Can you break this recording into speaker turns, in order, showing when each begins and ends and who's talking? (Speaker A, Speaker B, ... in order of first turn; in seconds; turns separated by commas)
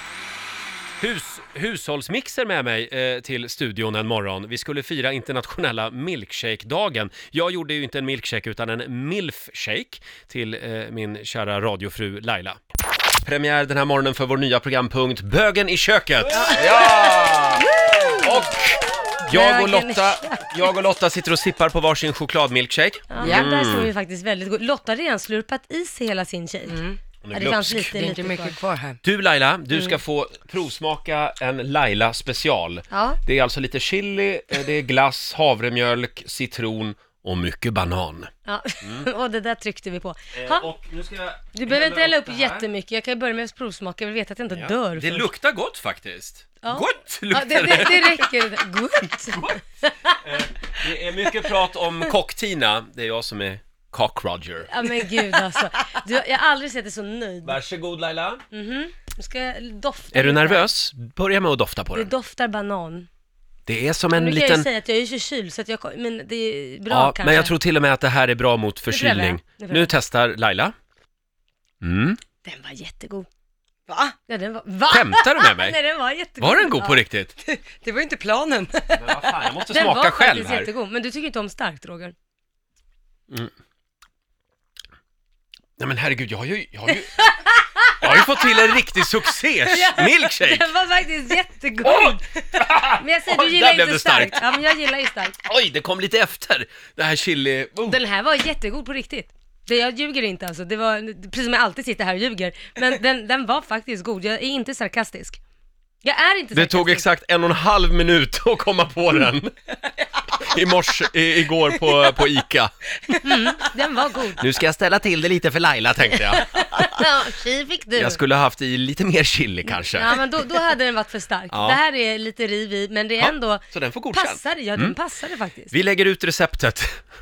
Speaker A: 1.0-12.6, Speaker A: 13.2-23.9, Speaker B: 16.3-18.5, Speaker B: 19.3-20.7, Speaker B: 23.1-26.8, Speaker C: 23.2-23.5, Speaker C: 26.7-27.0, Speaker A: 27.2-28.0, Speaker B: 27.3-28.6, Speaker C: 28.0-29.0, Speaker A: 29.0-38.3, Speaker B: 32.9-33.2, Speaker B: 38.5-40.6, Speaker A: 38.8-39.1, Speaker A: 40.3-42.6, Speaker B: 41.5-45.3, Speaker A: 44.5-48.3, Speaker B: 46.6-50.2, Speaker A: 49.1-49.6, Speaker A: 50.1-55.2, Speaker B: 54.7-57.6, Speaker A: 57.4-58.4, Speaker B: 58.5-60.7, Speaker A: 60.1-62.1, Speaker B: 61.9-63.1, Speaker A: 63.6-64.7, Speaker B: 64.1-67.5, Speaker A: 66.9-70.7, Speaker B: 68.9-70.0, Speaker A: 71.8-72.2, Speaker B: 72.4-73.3, Speaker C: 73.9-74.1, Speaker B: 74.3-77.0, Speaker A: 74.9-75.8, Speaker A: 76.4-77.3, Speaker C: 77.4-79.1, Speaker A: 78.9-80.7, Speaker B: 79.2-82.1, Speaker A: 85.8-87.3, Speaker B: 87.0-88.8, Speaker A: 88.0-90.7, Speaker B: 89.7-95.4, Speaker A: 91.8-94.6, Speaker A: 95.4-98.0, Speaker B: 97.9-105.4, Speaker B: 106.0-107.0, Speaker A: 106.5-109.5, Speaker A: 110.2-112.7, Speaker B: 113.2-114.5, Speaker A: 113.3-113.6, Speaker A: 114.3-117.0, Speaker B: 116.2-118.2, Speaker A: 118.0-120.3, Speaker B: 119.7-125.7, Speaker A: 121.5-121.8, Speaker A: 123.2-125.0, Speaker A: 125.7-127.0